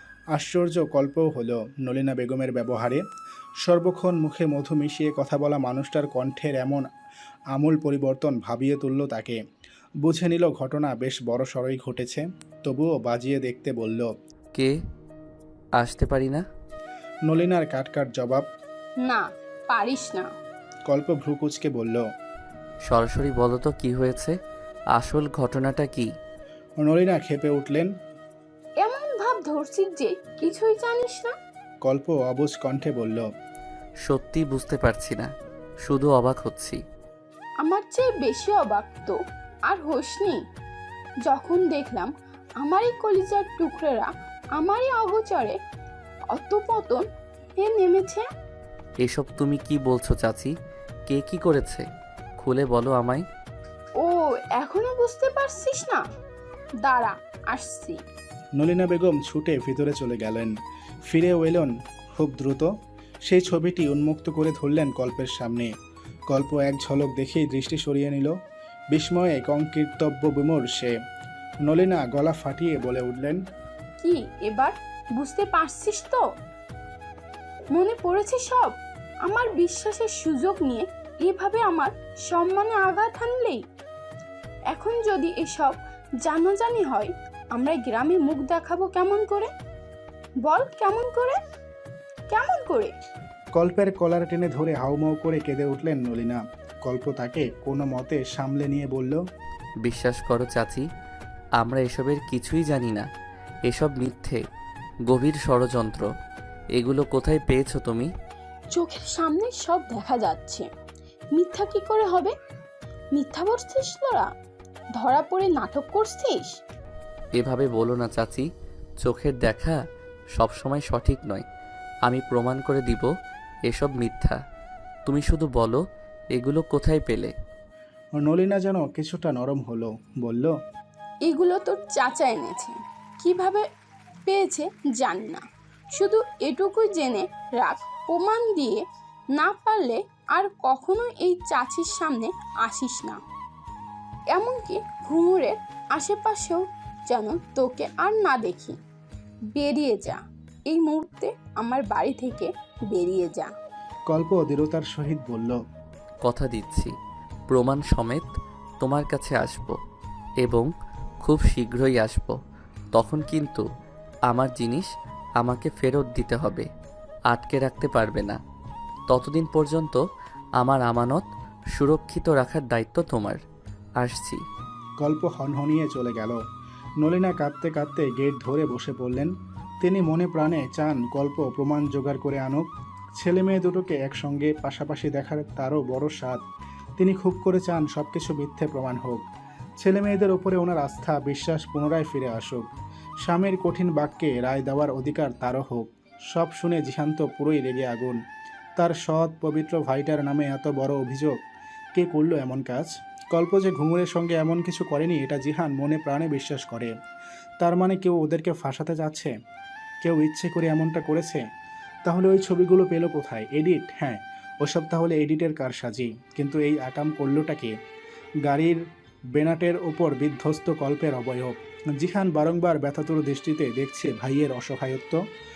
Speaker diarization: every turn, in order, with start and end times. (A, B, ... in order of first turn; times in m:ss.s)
0:00.4-0:03.0 A
0:03.6-0:06.8 A
0:07.5-0:09.4 A
0:10.0-0:14.1 A
0:15.8-0:16.4 B
0:17.3-0:18.4 A
0:19.0-0:20.3 C
0:20.9-0:22.0 A
0:22.8-0:24.4 B
0:25.0-0:26.1 B
0:26.8-0:27.9 A
0:28.8-0:31.3 C
0:31.8-0:33.3 A
0:34.0-0:35.3 B
0:35.8-0:36.8 B
0:37.6-0:39.2 C
0:39.7-0:40.4 C
0:41.3-0:45.6 C
0:46.3-0:47.0 C
0:47.6-0:48.2 C
0:49.0-0:50.5 B
0:51.1-0:51.8 B
0:52.4-0:53.2 B
0:54.0-0:56.0 C
0:56.8-0:58.0 C
0:58.6-1:00.6 A
1:01.1-1:02.7 A
1:03.3-1:05.7 A
1:06.3-1:08.3 A
1:08.9-1:10.9 A
1:11.6-1:13.4 A
1:14.0-1:16.2 C
1:17.7-1:23.6 C
1:24.7-1:29.5 C
1:30.5-1:31.4 C
1:32.3-1:32.9 C
1:33.6-1:39.2 A
1:39.8-1:40.8 B
1:41.6-1:43.1 B
1:43.7-1:44.4 B
1:45.1-1:46.1 B
1:46.8-1:48.1 B
1:48.7-1:50.7 C
1:51.4-1:52.3 C
1:53.2-1:54.3 C
1:55.0-1:56.5 C
1:57.4-1:58.5 B
1:59.0-1:59.8 B
2:00.4-2:01.5 B
2:02.1-2:03.1 B
2:03.7-2:04.4 B
2:05.1-2:05.8 B
2:06.4-2:07.3 B
2:08.2-2:10.5 A
2:11.3-2:13.6 C
2:14.3-2:18.8 C
2:19.4-2:23.2 C
2:24.3-2:28.8 C
2:29.6-2:33.5 C
2:34.1-2:35.6 A
2:36.2-2:36.9 B
2:37.5-2:39.8 B
2:40.4-2:40.7 B
2:41.2-2:42.4 B
2:42.9-2:43.6 B
2:44.3-2:44.9 B
2:45.4-2:46.7 B
2:47.3-2:48.4 B
2:49.1-2:50.0 B
2:50.6-2:53.4 B
2:54.0-2:54.4 B
2:55.0-2:56.4 A
2:57.0-3:06.4 A
3:07.0-3:09.2 A
3:09.8-3:12.7 A
3:13.3-3:18.2 A
3:18.8-3:21.4 A
3:22.0-3:26.9 A
3:27.6-3:29.3 A
3:30.0-3:31.4 A
3:32.1-3:37.7 A
3:38.5-3:38.8 A
3:39.4-3:45.2 A